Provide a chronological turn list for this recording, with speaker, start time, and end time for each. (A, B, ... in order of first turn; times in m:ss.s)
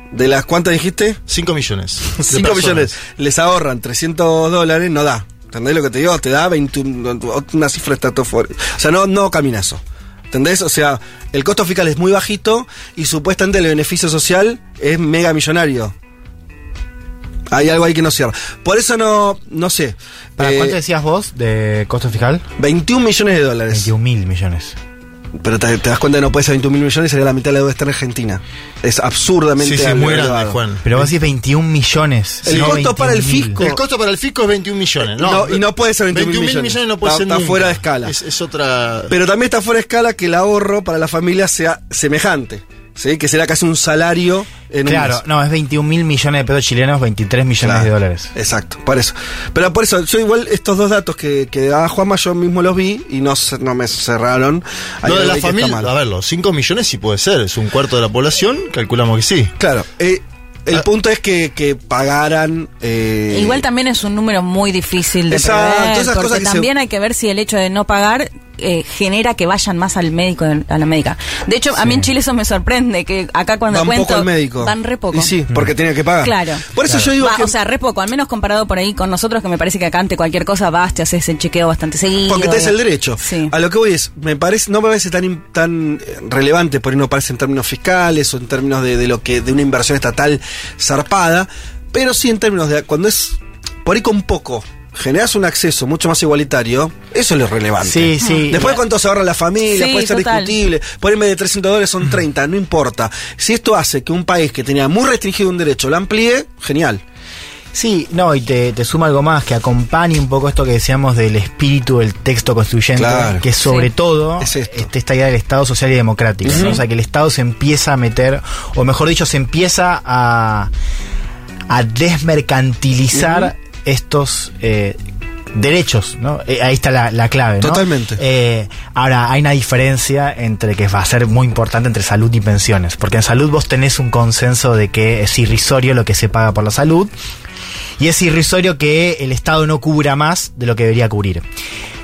0:00.1-0:01.2 A
0:01.3-0:02.9 B
0:02.1-0:15.9 A
0:17.5-0:20.8 A
0:20.4-0:22.4 C
0:22.6-0:23.9 A
0:23.7-0:24.8 C
0:25.4-0:30.6 A
0:29.6-0:31.1 B
0:30.8-0:33.6 C
0:32.4-0:32.8 B
0:32.4-0:33.8 A
0:33.6-0:39.1 B
0:35.0-0:38.1 A
0:39.1-0:45.2 A
0:44.8-0:48.3 C
0:47.6-0:55.9 A
0:55.0-0:59.5 B
0:59.6-1:03.6 A
1:03.3-1:15.3 D
1:05.3-1:06.7 A
1:11.8-1:12.1 C
1:13.7-1:17.6 A
1:16.2-1:23.5 D
1:16.9-1:17.1 C
1:22.3-1:47.0 A
1:37.8-1:38.8 C
1:38.2-1:38.5 D
1:39.7-1:40.6 D
1:47.7-2:00.7 C
1:53.0-1:53.5 A
1:53.6-1:53.9 D
1:54.4-1:54.9 A
1:56.4-1:56.8 A
1:56.5-1:56.8 D
2:01.7-2:05.0 C
2:03.1-2:03.5 A
2:05.5-2:17.1 C
2:07.6-2:08.2 A
2:18.0-2:21.4 C